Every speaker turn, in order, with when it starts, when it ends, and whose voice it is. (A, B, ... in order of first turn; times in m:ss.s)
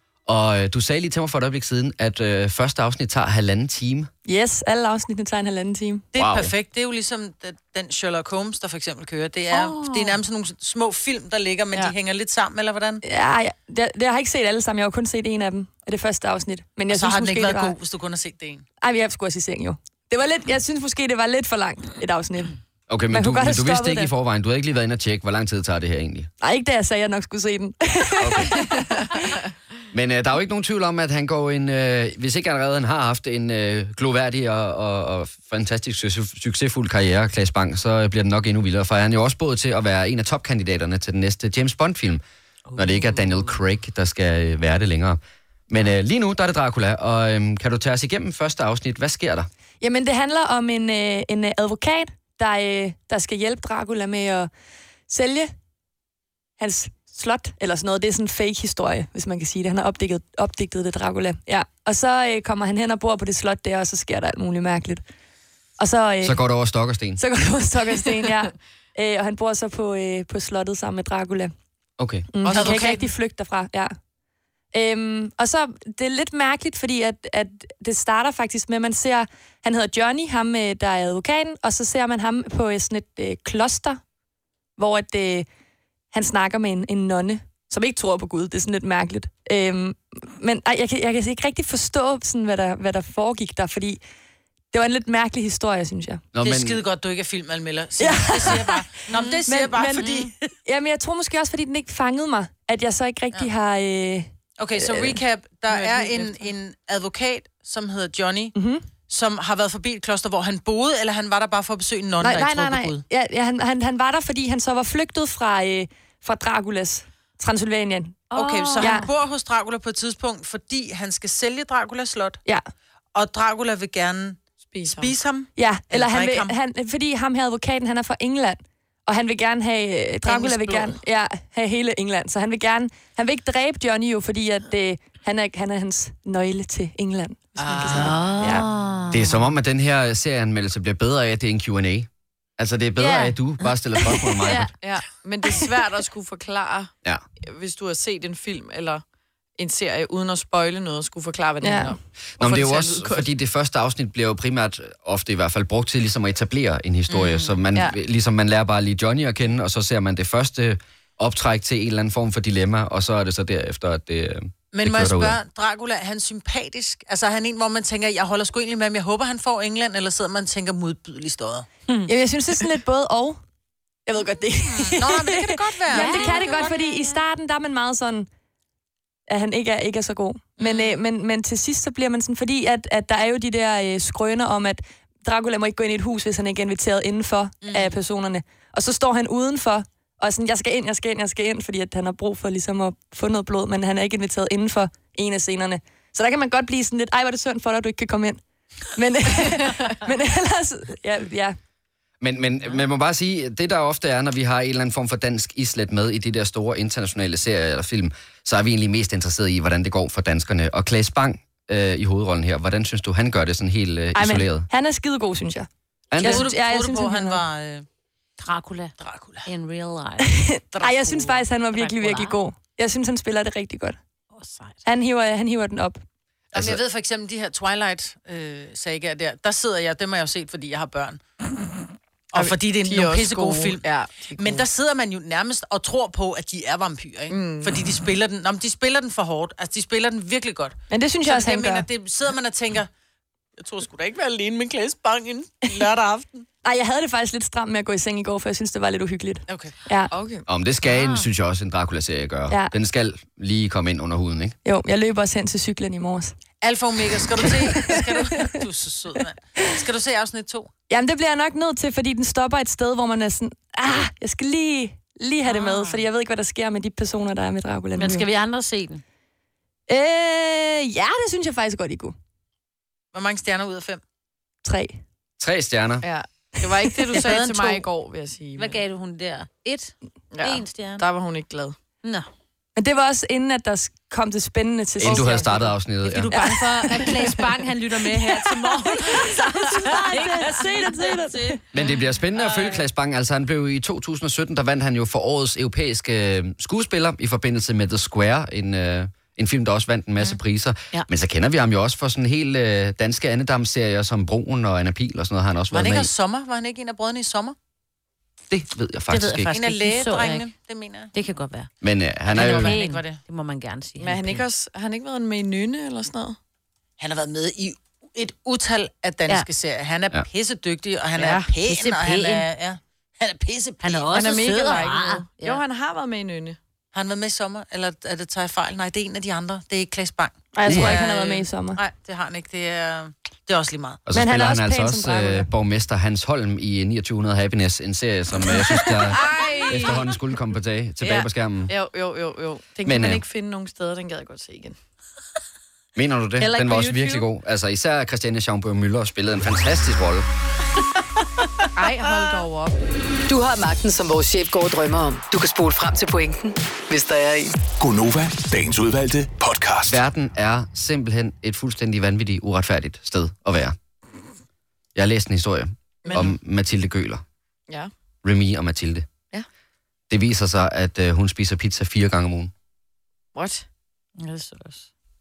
0:00.3-0:04.1 A
0:04.3-0:06.1 B
0:06.1-0:13.0 C
0:06.2-0:06.5 A
0:13.0-0:17.8 B
0:16.9-0:18.7 C
0:18.8-0:22.6 B
0:22.9-0:26.3 A
0:23.1-0:24.1 B
0:26.4-0:29.2 B
0:28.2-0:28.6 A
0:29.9-0:42.2 A
0:42.8-0:49.5 A
0:42.8-0:43.3 D
0:49.8-0:54.5 B
0:55.1-0:55.5 B
0:56.6-1:05.0 B
1:05.8-1:06.4 B
1:06.2-1:07.2 A
1:07.2-1:11.5 B
1:12.0-1:12.3 A
1:12.3-1:13.9 B
1:12.4-1:13.0 E
1:12.5-1:13.0 C
1:14.7-1:24.0 B
1:24.8-1:25.5 B
1:26.1-1:34.0 B
1:34.7-1:36.2 B
1:36.3-1:36.8 A
1:36.4-1:40.3 C
1:38.0-1:45.2 B
1:44.6-1:48.5 C
1:45.7-1:46.3 E
1:48.6-1:48.8 B
1:49.1-1:53.0 C
1:52.2-1:59.1 B
1:58.3-1:59.0 D
1:58.3-2:02.4 C
2:03.2-2:06.5 C
2:04.7-2:05.1 E
2:05.6-2:18.7 B
2:10.3-2:10.9 C
2:17.7-2:18.2 C
2:17.8-2:19.4 D
2:19.1-2:24.7 A
2:23.0-2:23.4 D
2:24.4-2:24.7 D
2:24.8-2:26.9 E
2:27.4-2:29.0 E
2:29.6-2:33.3 E
2:31.6-2:31.9 B
2:32.4-2:45.4 A
2:37.1-2:37.6 C
2:44.7-2:51.7 C
2:52.1-2:53.4 B
2:54.1-2:58.3 B
2:54.7-2:56.8 C
2:55.9-2:57.1 D
2:59.3-3:18.4 B
3:00.6-3:01.0 C
3:07.6-3:08.0 C
3:18.9-3:21.6 B
3:22.2-3:34.7 A
3:34.2-3:37.4 B
3:36.1-3:36.5 A
3:36.2-3:37.9 C
3:38.4-3:38.9 D
3:39.0-3:39.5 C
3:39.5-3:40.3 D
3:40.2-3:44.0 B
3:40.7-3:41.4 C
3:41.8-3:42.4 D
3:44.4-3:44.8 D
3:44.8-3:46.0 B
3:46.5-3:46.8 A
3:46.5-3:51.2 C
3:52.3-3:53.8 C
3:52.4-3:54.6 E
3:54.4-4:02.9 C
3:57.3-3:57.8 E
4:00.9-4:01.9 B
4:03.6-4:06.5 C
4:06.6-4:10.1 B
4:09.5-4:09.7 C
4:10.1-4:10.4 E
4:10.5-4:14.6 A
4:10.9-4:11.2 D
4:14.6-4:16.4 B
4:16.6-4:20.7 C
4:17.4-4:18.4 B
4:20.9-4:28.3 B
4:28.0-4:29.0 D
4:29.9-4:32.2 B
4:33.1-4:34.0 C
4:34.6-4:35.0 B
4:35.4-4:36.0 A
4:36.0-4:38.8 E
4:37.2-4:37.7 D
4:37.2-4:37.5 C
4:38.6-4:41.1 D
4:40.3-4:41.8 E
4:42.8-4:45.7 B
4:45.0-4:46.3 A
4:45.1-4:45.4 E
4:46.0-4:51.6 D
4:46.4-4:47.5 E
4:49.1-4:51.6 B
4:51.7-5:06.1 A
5:05.7-5:07.6 C
5:08.5-5:09.5 A
5:09.1-5:10.5 D
5:09.5-5:11.1 C
5:11.1-5:11.7 D
5:11.8-5:12.8 A
5:12.3-5:13.2 C
5:12.3-5:14.4 D
5:14.0-5:16.4 E
5:17.0-5:24.2 C
5:21.2-5:21.5 E
5:21.6-5:22.5 D
5:23.8-5:25.6 D
5:24.1-5:26.6 E
5:26.9-5:34.0 C
5:30.5-5:31.8 B
5:30.7-5:31.0 A
5:34.1-5:41.7 A
5:34.1-5:35.5 B
5:38.5-5:40.2 E
5:41.0-5:44.8 E
5:42.8-5:43.2 A
5:46.0-5:50.3 A
5:46.4-5:47.3 D
5:51.8-5:52.8 E
5:53.3-5:57.5 F
5:57.8-6:00.0 G
5:59.9-6:03.8 A
6:05.0-6:07.2 A
6:06.0-6:06.4 E
6:08.2-6:09.1 A
6:10.1-6:12.5 A
6:13.4-6:13.7 E
6:14.2-6:14.9 D